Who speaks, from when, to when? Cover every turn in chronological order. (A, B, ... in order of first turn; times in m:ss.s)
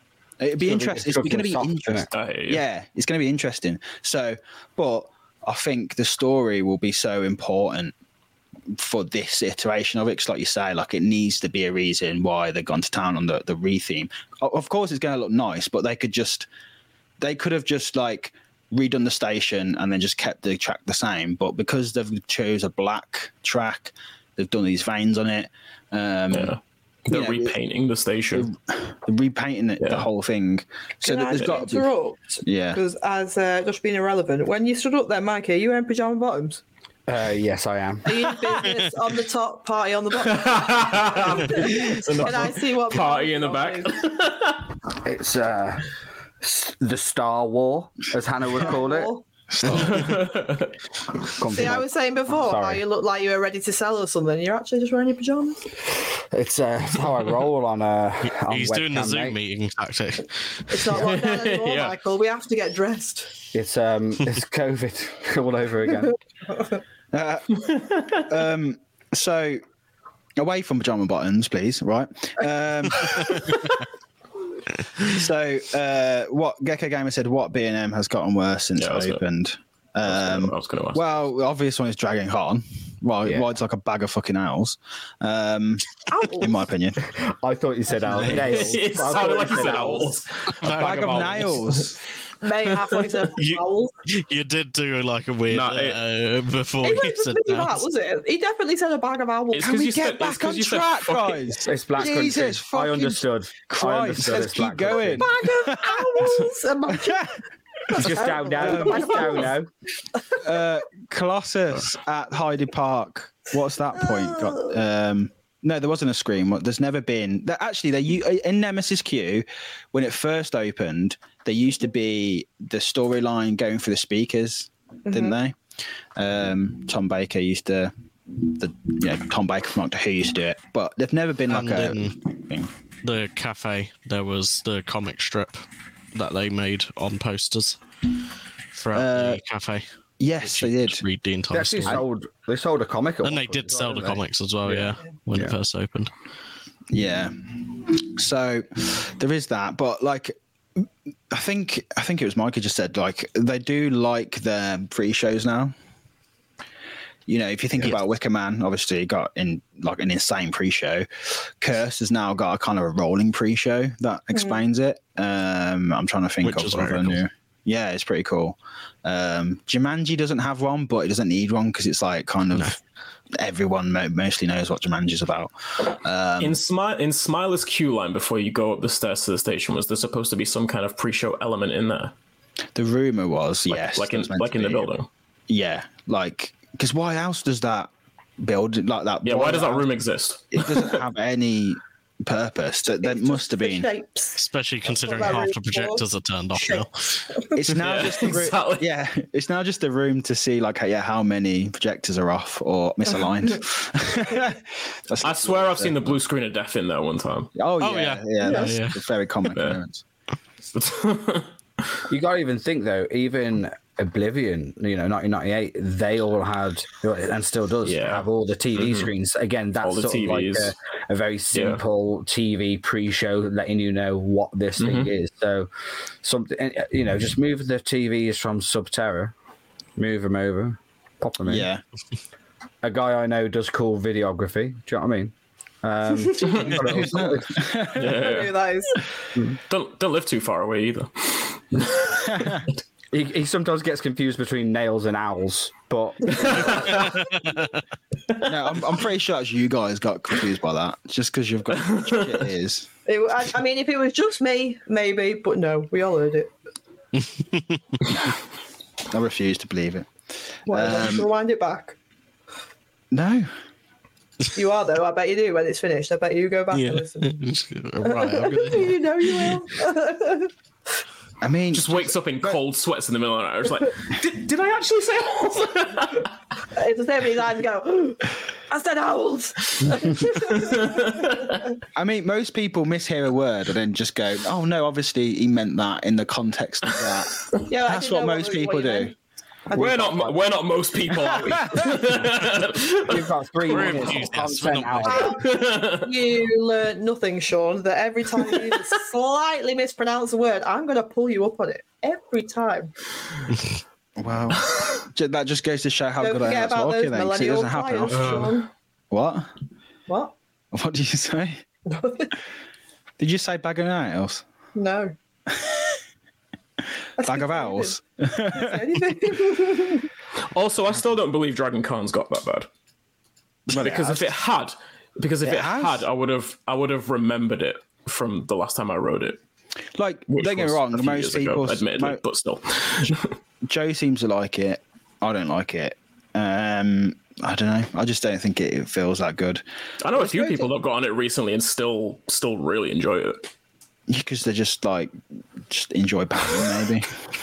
0:00.4-0:07.9 A
0:00.6-0:02.1 B
0:02.1-0:02.6 C
0:08.7-0:16.5 A
0:17.2-0:26.6 A
0:26.3-0:28.5 C
0:27.1-0:27.5 A
0:28.3-0:31.8 A
0:29.8-0:30.0 C
0:31.0-0:36.6 D
0:32.4-0:32.8 A
0:37.1-0:38.2 B
0:38.0-0:44.1 D
0:40.3-0:44.8 C
0:44.9-0:45.9 B
0:46.4-0:49.1 B
0:48.6-0:49.2 D
0:49.5-0:50.1 A
0:49.6-0:50.0 E
0:49.7-0:50.7 C
0:51.4-0:52.8 B
0:51.5-0:55.7 D
0:56.1-0:59.4 B
0:58.2-1:01.0 E
1:00.7-1:03.3 D
1:00.9-1:01.9 C
1:03.5-1:06.1 B
1:06.5-1:06.8 D
1:07.1-1:09.6 A
1:10.4-1:13.7 A
1:15.0-1:27.0 A
1:18.8-1:19.2 C
1:20.0-1:21.0 C
1:26.1-1:26.6 D
1:27.0-1:30.2 B
1:28.1-1:28.7 E
1:28.2-1:31.8 C
1:30.6-1:31.5 E
1:30.6-1:32.0 A
1:32.4-1:33.9 D
1:33.3-1:37.8 E
1:35.5-1:36.0 C
1:36.8-1:39.9 D
1:39.5-1:41.4 C
1:39.6-1:47.3 A
1:41.6-1:45.3 B
1:45.2-1:49.5 D
1:47.9-1:49.7 B
1:50.4-2:05.6 A
1:54.0-1:54.6 D
2:05.1-2:05.4 D
2:06.1-2:12.7 A
2:11.5-2:12.2 E
2:13.0-2:17.8 E
2:18.7-2:19.9 E
2:18.9-2:19.4 A
2:20.2-2:21.0 A
2:20.4-2:22.0 E
2:21.5-2:25.5 B
2:23.2-2:26.1 E
2:26.9-2:35.7 A
2:37.3-2:52.8 A
2:44.3-2:44.6 D
2:46.4-2:47.2 E
2:46.5-2:46.9 C
2:53.4-2:56.6 A
2:56.4-3:02.1 C
3:02.7-3:04.9 A
3:03.7-3:05.1 C
3:05.5-3:09.9 A
3:09.2-3:11.0 C
3:10.5-3:13.9 A
3:12.9-3:17.6 D
3:14.4-3:17.5 E
3:15.2-3:15.4 A
3:17.5-3:26.2 A
3:17.7-3:18.9 C
3:25.2-3:27.5 C
3:27.5-3:30.0 A
3:27.8-3:29.0 E
3:28.4-3:28.7 D
3:29.5-3:29.8 C
3:30.7-3:32.0 C
3:32.1-3:45.7 B
3:37.8-3:39.1 C
3:39.8-3:40.7 C
3:41.5-3:41.8 C
3:44.8-3:45.1 C
3:46.2-3:49.3 B
3:50.0-3:51.7 B
3:51.4-3:51.8 A
3:52.8-3:57.6 B
3:56.1-3:57.3 D
3:56.9-3:58.2 A
3:58.0-3:59.0 C
3:58.0-3:59.0 D
3:59.6-4:02.4 C
4:01.9-4:02.6 A
4:03.1-4:07.1 B
4:06.4-4:07.0 D
4:06.5-4:07.2 C
4:07.1-4:07.6 E
4:08.3-4:08.9 C
4:08.4-4:12.9 A
4:11.8-4:12.5 C
4:13.0-4:16.5 D
4:17.2-4:17.8 E
4:18.1-4:18.4 A
4:19.1-4:21.3 A
4:20.7-4:22.0 D
4:23.1-4:23.5 A
4:24.5-4:27.4 D
4:26.7-4:29.6 E
4:28.0-4:30.5 D
4:31.4-4:32.1 A
4:31.7-4:36.3 C
4:36.7-4:41.7 D
4:40.5-4:41.6 C
4:41.9-4:49.1 A
4:47.7-4:49.1 D
4:49.7-4:50.4 D
4:49.7-4:53.3 C
4:49.8-4:50.1 B
4:51.3-4:51.9 A
4:53.0-4:55.4 B
4:53.6-4:55.3 E
4:55.1-5:02.9 D
4:55.3-4:56.1 C
5:04.2-5:08.6 A
5:06.2-5:08.7 D
5:08.1-5:08.5 E
5:09.1-5:09.5 A
5:10.1-5:10.3 D
5:10.7-5:11.6 A
5:11.9-5:12.3 D
5:13.2-5:14.4 A
5:14.7-5:15.1 D
5:15.5-5:16.0 A
5:17.2-5:20.1 D
5:17.2-5:18.8 A
5:20.5-5:22.7 C
5:23.7-5:24.1 A
5:23.7-5:29.4 C
5:23.8-5:24.2 B
5:25.4-5:26.0 A
5:30.0-5:32.2 A
5:30.3-5:33.3 C
5:33.6-5:39.6 A
5:40.0-5:43.5 C
5:40.1-5:40.7 A
5:44.1-5:47.2 A